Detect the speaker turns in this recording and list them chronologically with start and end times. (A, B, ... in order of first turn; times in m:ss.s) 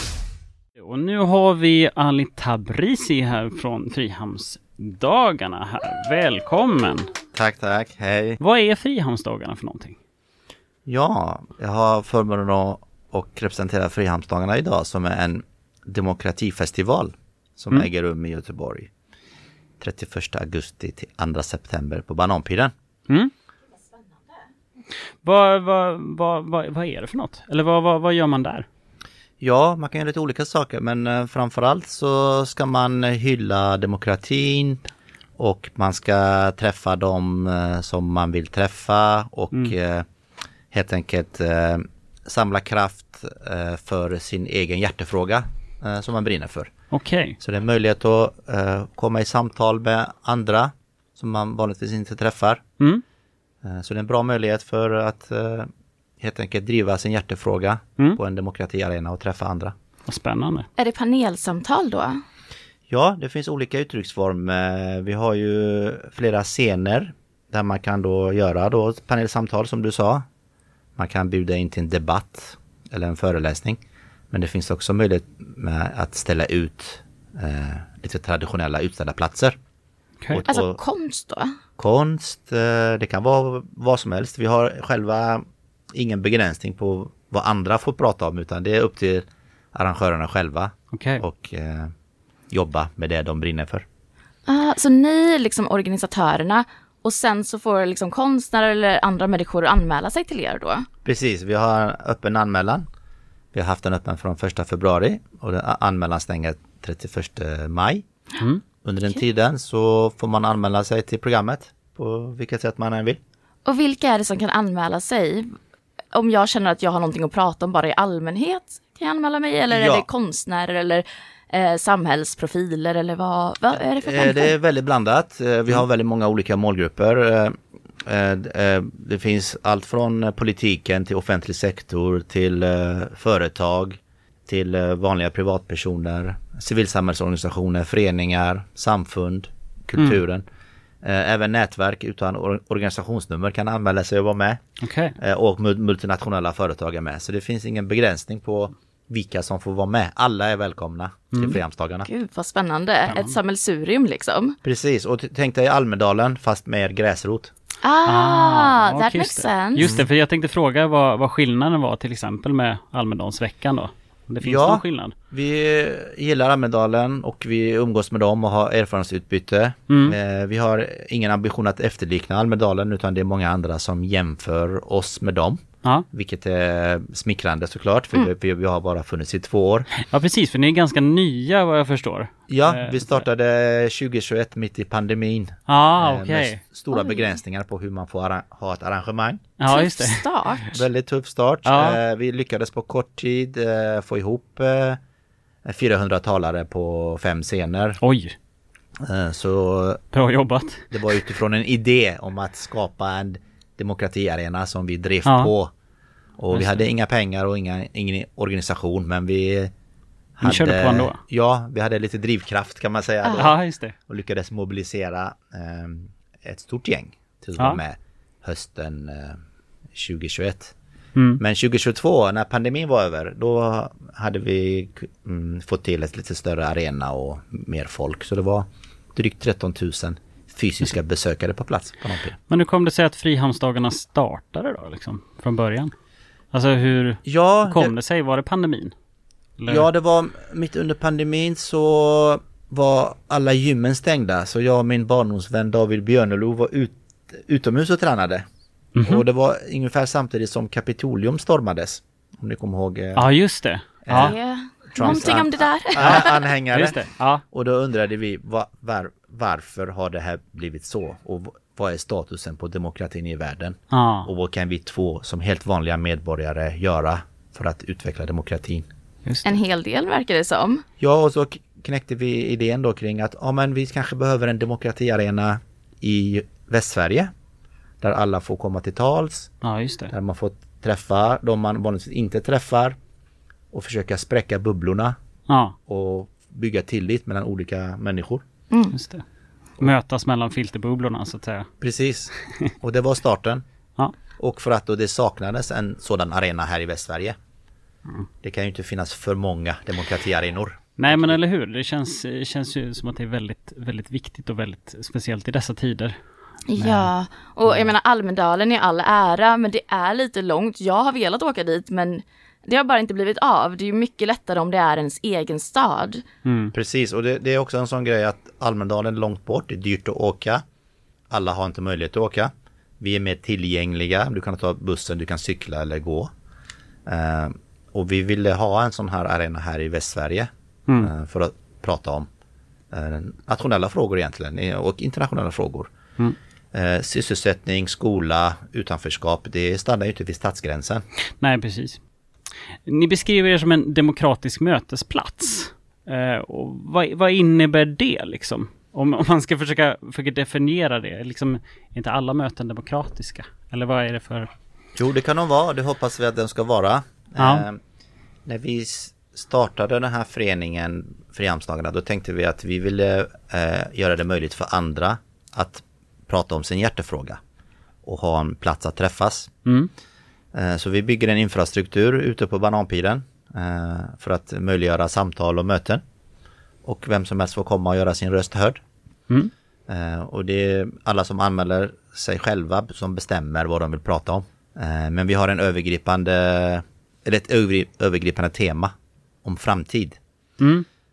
0:00.8-0:07.1 A
0:07.3-0:08.4 B
0:08.4-0:09.9 A
0:10.8-0:18.9 B
0:19.8-0:22.7 B
0:25.2-0:28.6 A
0:29.4-0:34.8 B
0:35.4-0:40.0 B
0:40.7-0:46.7 B
0:46.9-0:47.4 A
0:47.4-0:52.6 B
0:53.6-0:55.7 B
0:56.2-0:59.7 B
1:00.1-1:00.7 A
1:00.8-1:02.2 C
1:02.9-1:10.2 B
1:11.0-1:13.8 B
1:14.3-1:19.6 B
1:20.3-1:20.8 B
1:20.5-1:21.6 C
1:21.8-1:25.4 B
1:25.9-1:31.9 B
1:30.9-1:31.2 A
1:32.5-1:33.8 B
1:34.5-1:40.9 C
1:41.0-1:42.8 B
1:43.5-1:48.0 B
1:48.8-1:53.2 B
1:53.6-1:55.5 C
1:56.1-2:04.5 C
1:59.7-2:00.0 B
2:03.7-2:20.4 B
2:21.0-2:24.6 B
2:24.8-2:25.2 A
2:25.2-2:32.1 B
2:31.3-2:31.6 A
2:32.0-2:34.6 C
2:33.1-2:33.3 A
2:34.6-2:37.5 B
2:37.8-2:39.9 C
2:38.0-2:45.1 A
2:39.8-2:40.0 B
2:44.4-2:59.9 B
2:49.9-2:50.2 A
3:00.0-3:03.2 A
3:02.5-3:09.4 B
3:05.7-3:06.6 A
3:06.9-3:07.4 C
3:09.6-3:10.3 A
3:09.7-3:10.8 C
3:10.6-3:15.0 B
3:11.6-3:12.0 A
3:15.6-3:18.0 B
3:18.0-3:18.3 A
3:19.0-3:20.0 B
3:20.1-3:20.8 A
3:20.9-3:25.7 B
3:25.2-3:25.5 A
3:26.4-3:29.7 B
3:26.5-3:26.8 A
3:30.4-3:39.4 B
3:30.4-3:31.2 A
3:33.2-3:33.5 C
3:33.4-3:33.9 A
3:39.9-3:40.7 B
3:41.2-3:41.4 A
3:41.4-3:52.4 B
3:52.5-3:55.9 A
3:56.5-3:58.9 A
3:57.2-3:57.9 B
3:59.6-3:59.9 A
3:59.7-4:08.4 B
4:09.0-4:09.2 A
4:09.0-4:13.3 B
4:13.2-4:14.3 A
4:14.0-4:14.4 B
4:14.1-4:16.4 C
4:14.9-4:17.0 B
4:16.0-4:17.4 A
4:17.5-4:28.9 B
4:23.9-4:24.3 A
4:29.4-4:30.8 C
4:31.0-4:37.3 B
4:38.0-4:39.5 B
4:39.6-4:40.1 A
4:40.1-4:42.9 B
4:43.7-4:45.2 B
4:45.5-4:45.8 A
4:45.9-4:48.4 B
4:48.9-4:49.2 A
4:49.8-4:51.7 A
4:51.8-4:53.6 B
4:54.4-4:57.3 B
4:58.4-5:01.4 B
5:01.0-5:06.2 A
5:06.7-5:16.2 C
5:06.8-5:07.1 A
5:16.4-5:16.7 A
5:16.7-5:20.6 B
5:21.3-5:26.3 B
5:27.1-5:32.3 B
5:32.9-5:35.9 B
5:36.7-5:41.0 B
5:41.4-5:42.0 A
5:42.8-5:54.5 A
5:55.0-5:57.8 B
5:57.4-5:57.6 A
5:58.4-6:07.4 B
6:08.0-6:09.5 B
6:10.5-6:16.0 B
6:16.8-6:18.8 B
6:19.9-6:28.9 B
6:29.4-6:30.2 B
6:30.6-6:30.8 A